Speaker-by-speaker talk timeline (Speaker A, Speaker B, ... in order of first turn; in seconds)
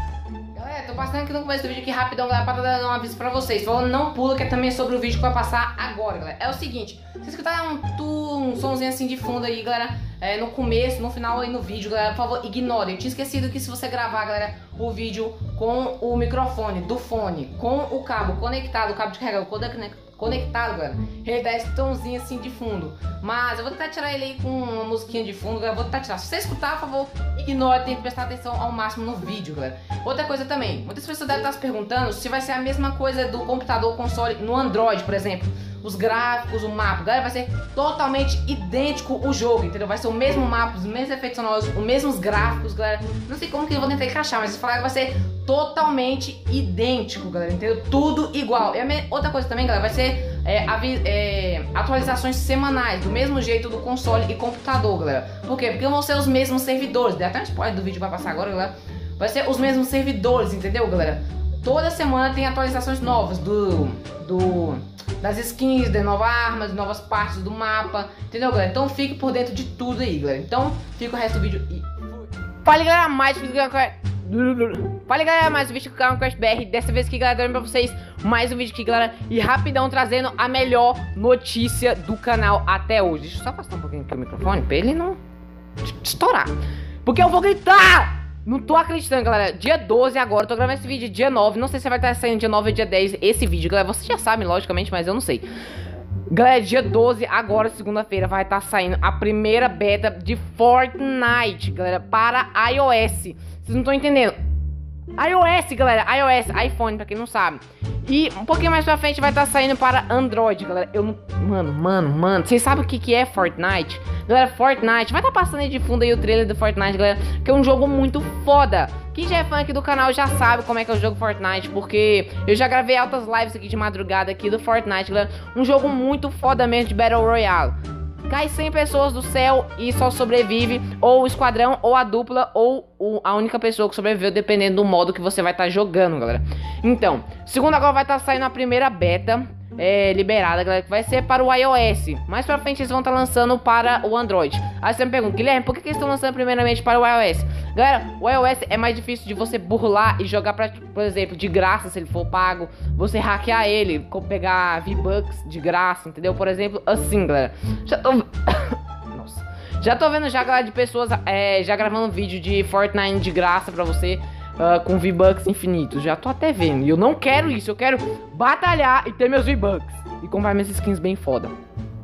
Speaker A: 0.5-85.2, 85.8-86.5, 87.0-95.5, 96.3-104.3, 105.2-127.7, 128.3-171.5